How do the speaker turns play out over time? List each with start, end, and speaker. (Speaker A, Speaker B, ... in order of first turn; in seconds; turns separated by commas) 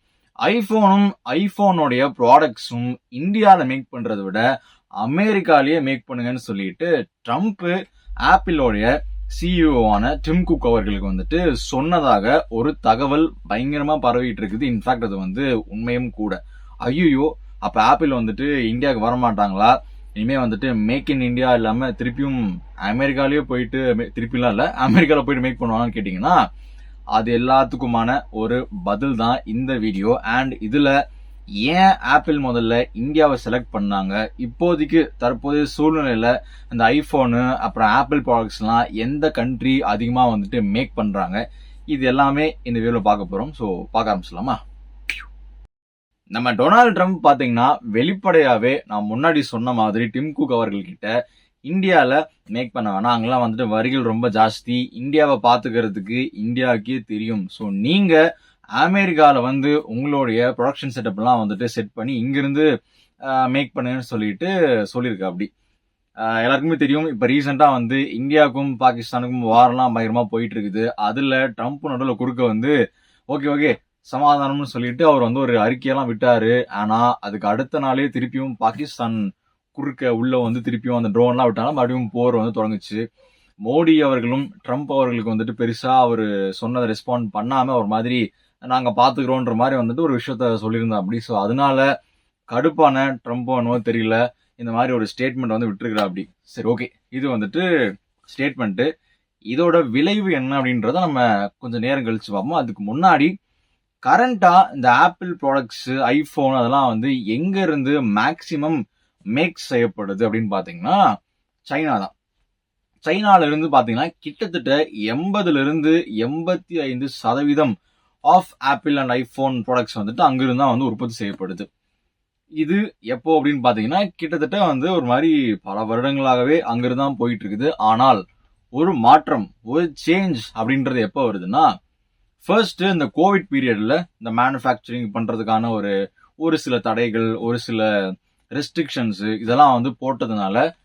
Speaker A: 0.4-4.4, Speaker A: 5.0-7.7, Speaker A: 8.2-26.4, Speaker A: 27.1-30.9, Speaker A: 31.6-44.6, Speaker A: 46.3-51.1, Speaker A: 51.7-58.2, Speaker A: 58.8-62.7, Speaker A: 63.3-65.5, Speaker A: 66.3-72.7, Speaker A: 73.3-79.2, Speaker A: 79.7-83.0, Speaker A: 83.7-91.8, Speaker A: 92.5-97.7, Speaker A: 98.3-98.9, Speaker A: 99.5-103.3, Speaker A: 104.0-108.8, Speaker A: 109.3-111.0, Speaker A: 111.7-112.1, Speaker A: 113.0-117.7, Speaker A: 118.3-121.7, Speaker A: 122.6-128.2, Speaker A: 128.7-131.7, Speaker A: 132.4-137.9, Speaker A: 138.5-140.6